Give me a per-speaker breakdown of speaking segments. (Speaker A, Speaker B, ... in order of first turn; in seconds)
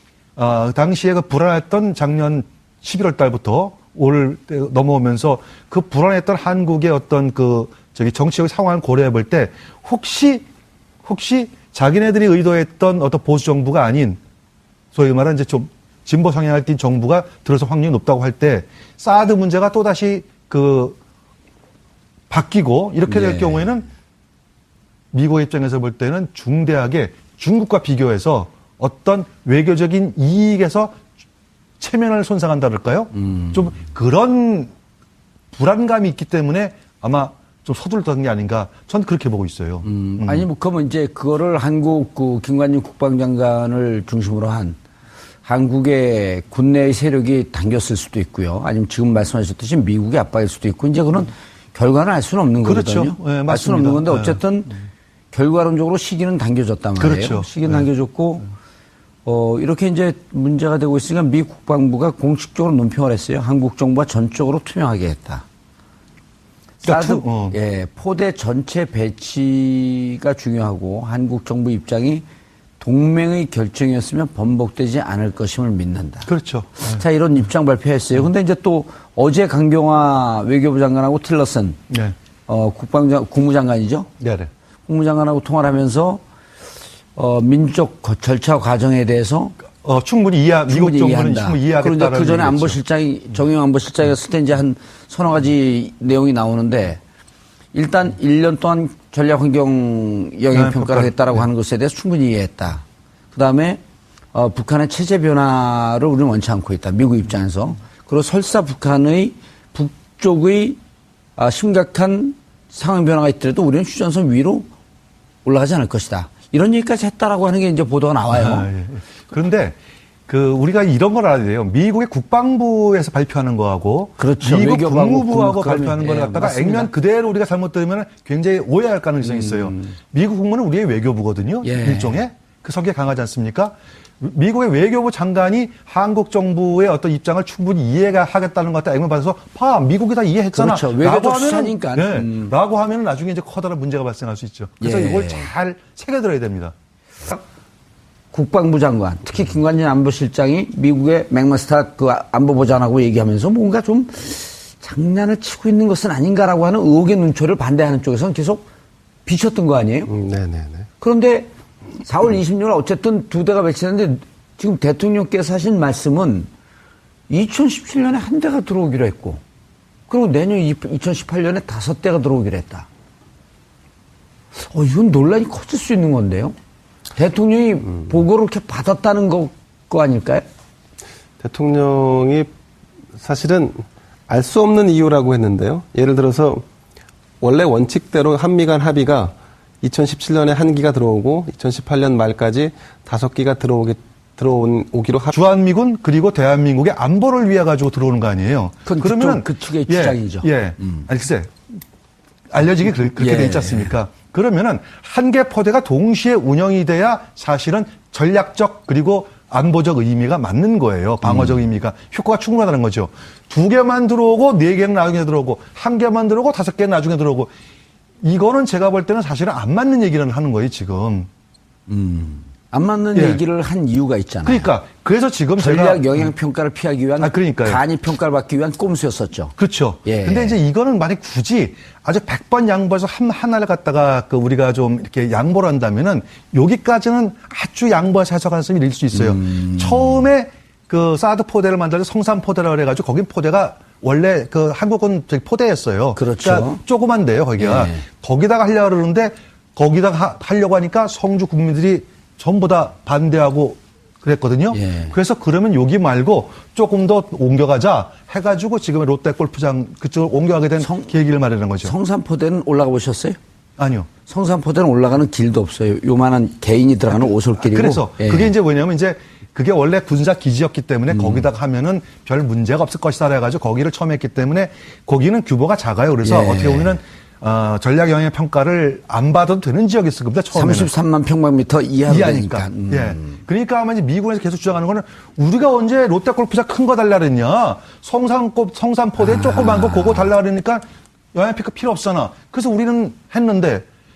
Speaker A: 0.4-10.4, 11.0-14.2, 14.9-21.0, 22.3-23.9, 25.1-30.9, 31.8-34.7, 35.5-40.5, 52.6-54.4, 57.0-57.9, 66.8-67.5, 76.2-77.0, 81.9-82.1, 84.2-84.5, 89.8-92.8, 100.5-101.5, 118.3-119.8, 120.3-146.7, 195.3-201.5, 202.5-217.5, 218.2-221.3, 223.1-223.4, 224.4-226.3, 227.2-227.8, 229.6-261.9, 263.8-264.1, 267.1-280.9, 282.1-293.9
Speaker B: 23.1-23.7, 33.2-33.8, 39.8-44.8, 45.4-58.5, 59.2-65.4, 66.8-72.2, 72.8-76.3, 76.8-81.8, 82.5-84.1, 84.9-86.2, 87.1-89.5, 90.7-97.0, 97.7-103.8, 104.3-110.8, 111.4-114.7, 115.4-118.7, 124.2-126.9, 129.2-129.9, 131.6-132.2, 140.5-142.5, 144.8-145.5, 148.3-158.7, 159.2-160.1, 161.0-166.5, 167.3-169.4, 170.1-172.9, 174.6-176.5, 177.1-180.4, 198.8-201.0, 203.1-203.9, 211.2-211.5, 221.9-224.7, 225.6-230.6, 239.1-240.2, 246.1-246.8, 247.6-248.0, 254.7-255.1, 260.8-261.1, 261.8-263.4, 264.2-268.5, 271.1-271.5, 276.2-277.0, 280.5-283.4, 289.2-290.3
Speaker C: 160.1-160.9, 181.4-182.5, 183.2-186.6, 187.4-195.4